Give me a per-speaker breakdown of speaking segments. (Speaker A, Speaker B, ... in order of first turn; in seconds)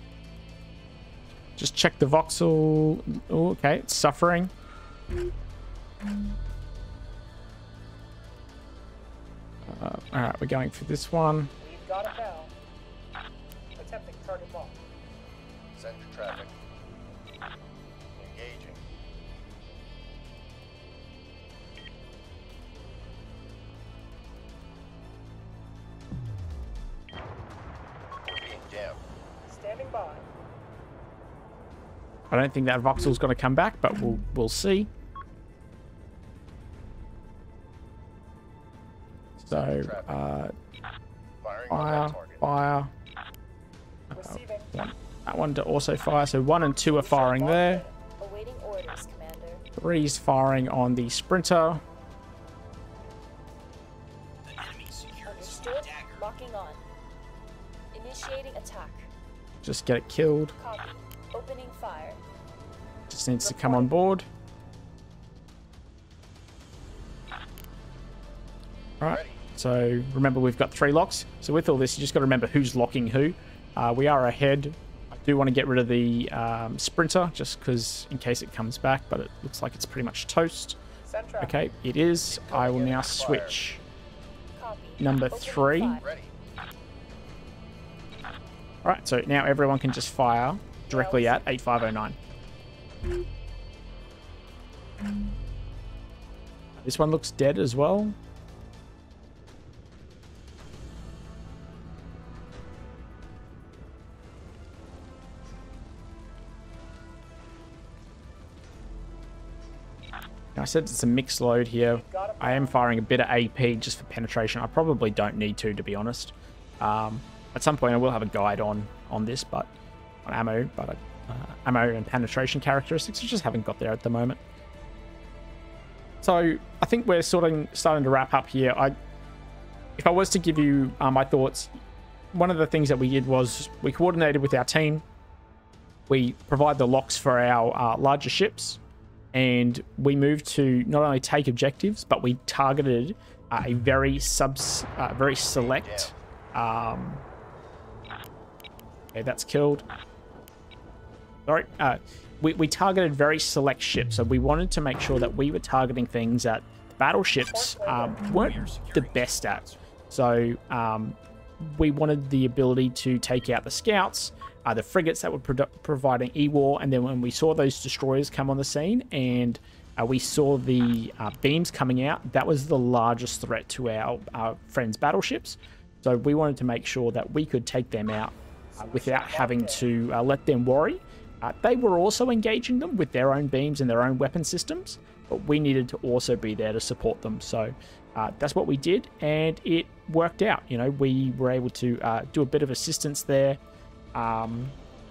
Speaker A: 1.6-4.5, 9.6-11.5, 32.3-34.9, 39.4-40.5, 41.7-42.9, 44.1-47.9, 49.8-51.8, 59.6-60.6, 63.1-64.3, 69.0-80.8, 81.4-83.8, 85.0-86.0, 88.8-92.2, 96.8-98.2, 110.5-119.7, 120.2-124.4, 126.2-128.9, 130.0-131.7, 132.3-135.0, 136.1-138.8, 139.3-147.2, 149.1-149.8, 151.4-193.6, 194.1-194.8
Speaker B: 11.6-12.5, 13.8-14.8, 29.5-30.3, 44.1-44.7, 46.9-48.0, 63.4-63.9, 81.0-81.6, 90.9-91.4, 111.9-112.8, 157.5-158.2, 178.7-179.8
Speaker C: 15.7-16.5, 18.2-18.8, 28.2-29.0, 39.6-40.2, 41.4-42.4, 69.1-69.4, 82.3-83.6, 86.0-86.3, 145.5-146.1
Speaker D: 48.2-49.6, 55.3-56.8, 57.9-59.1, 60.6-62.2, 84.6-86.0
Speaker E: 54.4-56.3, 158.3-159.8